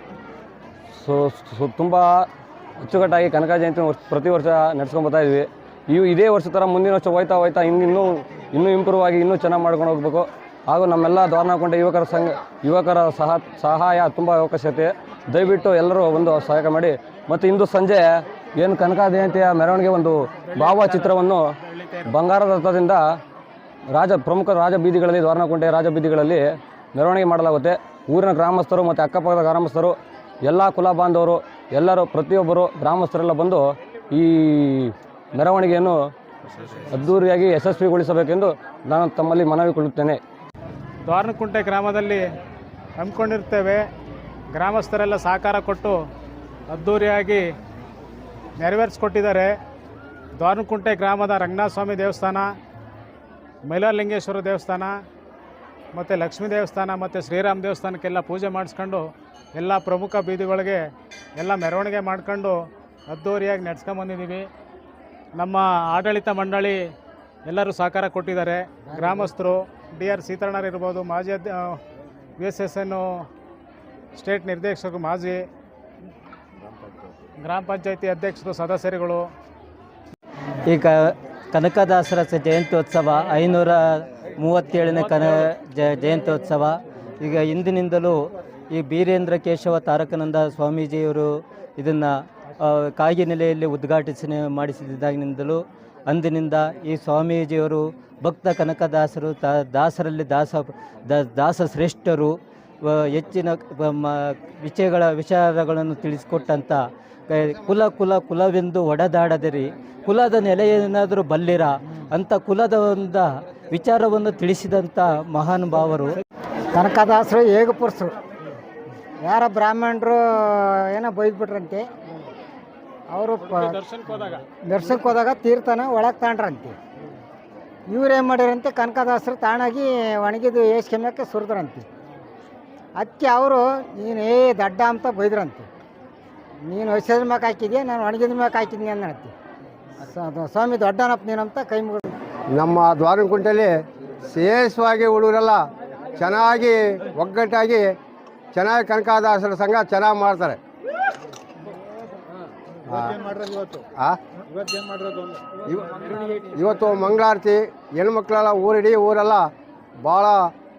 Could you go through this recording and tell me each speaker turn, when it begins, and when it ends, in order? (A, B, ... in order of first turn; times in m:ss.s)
0:00.9-0:02.2 A
0:02.8-0:21.4 A
0:20.6-0:21.1 B
0:21.7-0:22.0 B
0:22.0-0:23.0 A
0:23.9-0:36.0 A
0:36.8-0:40.2 A
0:41.0-0:42.2 B
0:43.0-0:43.8 B
0:44.5-0:46.0 B
0:46.7-0:47.5 B
0:48.6-0:49.6 B
0:50.4-0:52.5 B
0:53.6-0:55.0 B
0:55.9-1:04.5 B
1:05.3-1:06.9 B
1:07.4-1:11.8 B
1:12.4-1:13.3 B
1:14.1-1:15.5 B
1:17.4-1:19.3 B
1:20.7-1:28.2 C
1:28.7-1:56.2 C
1:56.7-1:58.1 D
1:59.2-2:01.9 D
2:03.1-2:03.8 D
2:03.4-2:04.4 B
2:04.6-2:06.8 D
2:07.9-2:11.8 D
2:13.0-2:15.7 D
2:16.6-2:19.3 D
2:20.0-2:22.1 D
2:22.5-2:23.7 E
2:24.2-2:25.6 E
2:26.1-2:28.0 E
2:28.5-2:30.6 E
2:32.9-2:34.2 E
2:35.7-2:39.5 E
2:40.0-2:40.5 E